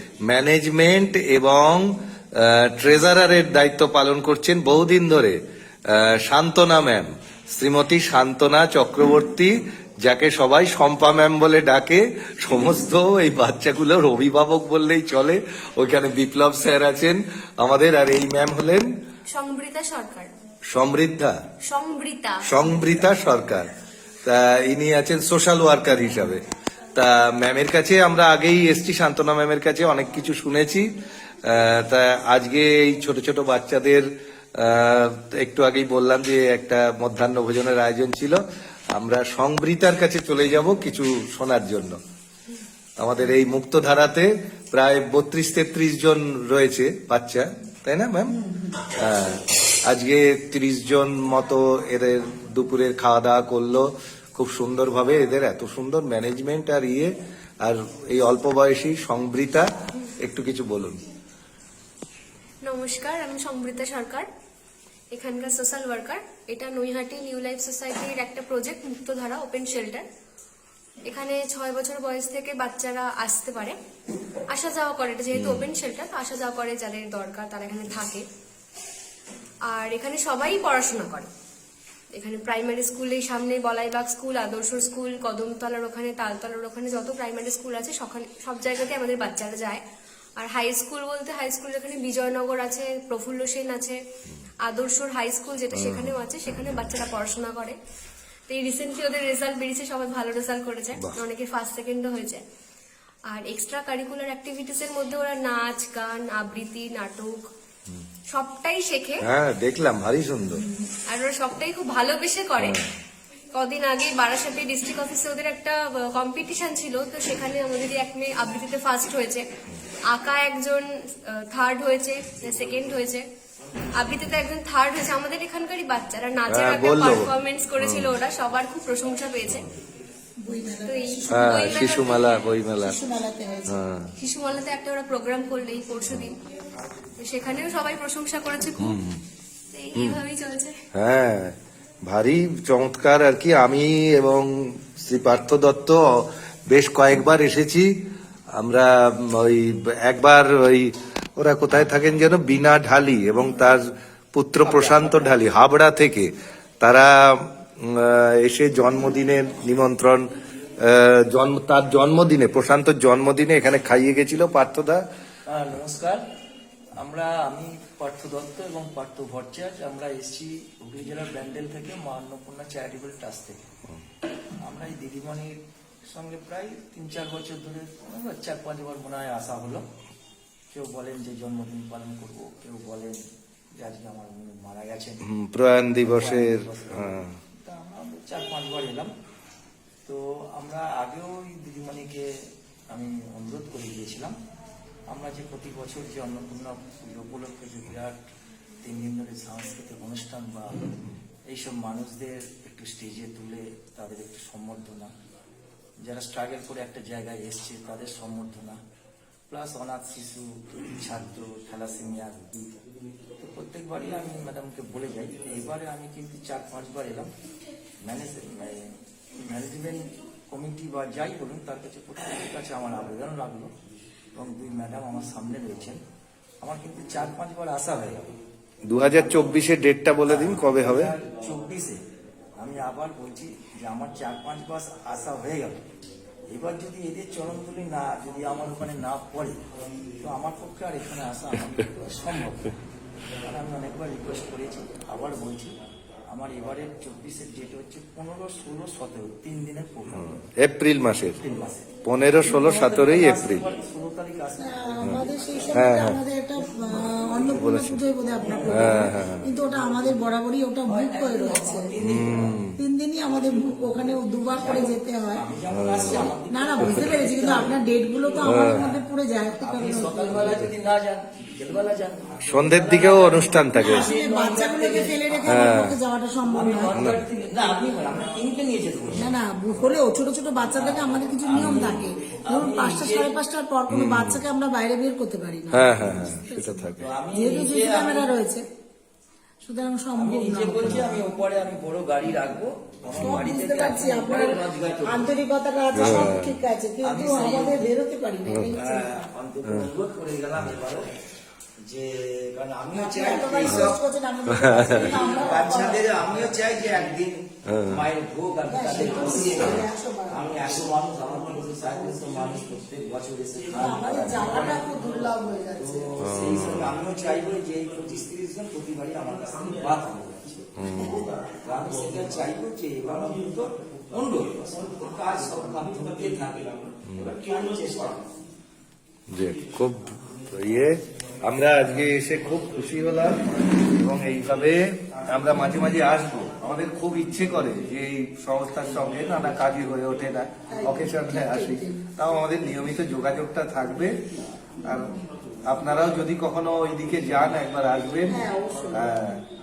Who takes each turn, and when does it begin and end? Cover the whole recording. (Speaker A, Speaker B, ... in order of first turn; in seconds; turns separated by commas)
Speaker A: 0.3-1.9, Speaker A: 2.4-5.4, Speaker A: 5.9-9.5, Speaker A: 10.1-18.9, Speaker B: 19.3-20.3, Speaker A: 20.7-21.4, Speaker B: 21.7-22.5, Speaker A: 22.5-23.7, Speaker A: 24.2-26.4, Speaker A: 26.9-30.9, Speaker A: 31.4-34.0, Speaker A: 34.6-38.4, Speaker A: 39.0-42.0, Speaker A: 43.0-48.3, Speaker C: 48.5-48.7, Speaker A: 48.9-57.1, Speaker A: 57.6-61.0, Speaker B: 62.6-64.3, Speaker B: 65.1-70.1, Speaker B: 71.1-73.8, Speaker B: 74.5-78.2, Speaker A: 75.3-75.7, Speaker B: 79.7-81.3, Speaker B: 82.2-89.8, Speaker B: 90.4-94.0, Speaker B: 94.7-97.8, Speaker A: 95.7-96.1, Speaker B: 98.5-102.4, Speaker B: 103.3-107.5, Speaker B: 108.3-109.3, Speaker A: 109.2-110.6, Speaker B: 110.7-112.8, Speaker B: 113.5-119.5, Speaker B: 120.1-123.2, Speaker B: 124.0-129.7, Speaker A: 126.5-128.1, Speaker C: 130.4-132.1, Speaker B: 130.9-132.4, Speaker A: 131.3-133.0, Speaker C: 132.7-133.8, Speaker A: 133.7-134.1, Speaker B: 134.2-136.4, Speaker B: 137.2-139.0, Speaker A: 138.8-139.2, Speaker B: 139.7-140.8, Speaker A: 140.9-147.9, Speaker A: 148.6-153.8, Speaker A: 154.3-160.3, Speaker D: 154.6-155.5, Speaker A: 160.8-165.0, Speaker D: 165.5-166.2, Speaker D: 167.0-173.6, Speaker D: 174.6-179.8, Speaker D: 180.7-183.2, Speaker D: 183.8-185.2, Speaker A: 185.2-187.3, Speaker D: 185.9-189.1, Speaker D: 190.1-192.3, Speaker D: 192.9-194.3, Speaker D: 195.1-198.2, Speaker D: 198.8-200.8, Speaker D: 201.5-205.1, Speaker D: 206.1-208.8, Speaker D: 209.5-212.7, Speaker A: 209.9-211.1, Speaker D: 213.4-217.3, Speaker A: 214.1-214.5, Speaker D: 218.1-223.7, Speaker D: 224.4-226.0, Speaker D: 226.6-228.3, Speaker A: 228.9-231.8, Speaker D: 229.0-232.0, Speaker D: 232.6-235.8, Speaker D: 236.5-239.6, Speaker A: 238.4-239.5, Speaker D: 240.2-242.7, Speaker A: 241.1-242.3, Speaker D: 243.4-245.7, Speaker D: 246.3-250.4, Speaker A: 250.1-251.4, Speaker D: 251.2-255.9, Speaker A: 252.0-253.7, Speaker C: 254.6-261.9, Speaker A: 255.0-256.2, Speaker D: 257.0-257.5, Speaker A: 257.5-258.0, Speaker D: 258.4-259.1, Speaker A: 258.6-259.4, Speaker D: 260.9-262.6, Speaker A: 262.0-262.8, Speaker C: 262.7-265.5, Speaker D: 264.6-269.0, Speaker A: 265.7-267.3, Speaker C: 266.0-270.6, Speaker A: 268.4-268.9, Speaker D: 269.6-275.7, Speaker A: 270.4-270.7, Speaker A: 272.5-274.1, Speaker C: 273.7-277.3, Speaker A: 275.4-276.0, Speaker D: 276.5-279.4, Speaker A: 276.9-277.2, Speaker A: 277.8-278.8, Speaker C: 279.1-288.6, Speaker D: 280.7-283.4, Speaker A: 281.5-282.0, Speaker A: 283.9-284.4, Speaker A: 285.7-287.1, Speaker D: 287.0-288.3, Speaker C: 289.6-291.2, Speaker D: 290.1-295.4, Speaker A: 293.1-293.7, Speaker C: 293.1-299.1, Speaker D: 295.9-296.4, Speaker A: 295.9-296.5, Speaker D: 297.0-297.9, Speaker A: 298.5-299.0, Speaker D: 298.8-301.1, Speaker A: 299.6-299.9, Speaker D: 301.9-304.0, Speaker C: 302.9-306.1, Speaker A: 303.4-303.9, Speaker A: 304.6-305.4, Speaker D: 304.8-315.1, Speaker A: 307.7-308.1, Speaker C: 308.7-310.6, Speaker A: 311.1-311.8, Speaker A: 313.7-314.5, Speaker C: 313.7-316.4, Speaker D: 315.8-328.2, Speaker A: 316.2-317.6, Speaker A: 320.8-321.2, Speaker A: 327.1-327.4, Speaker A: 329.3-344.2, Speaker C: 340.7-342.0, Speaker A: 344.8-345.1, Speaker A: 345.7-349.4, Speaker C: 348.2-349.3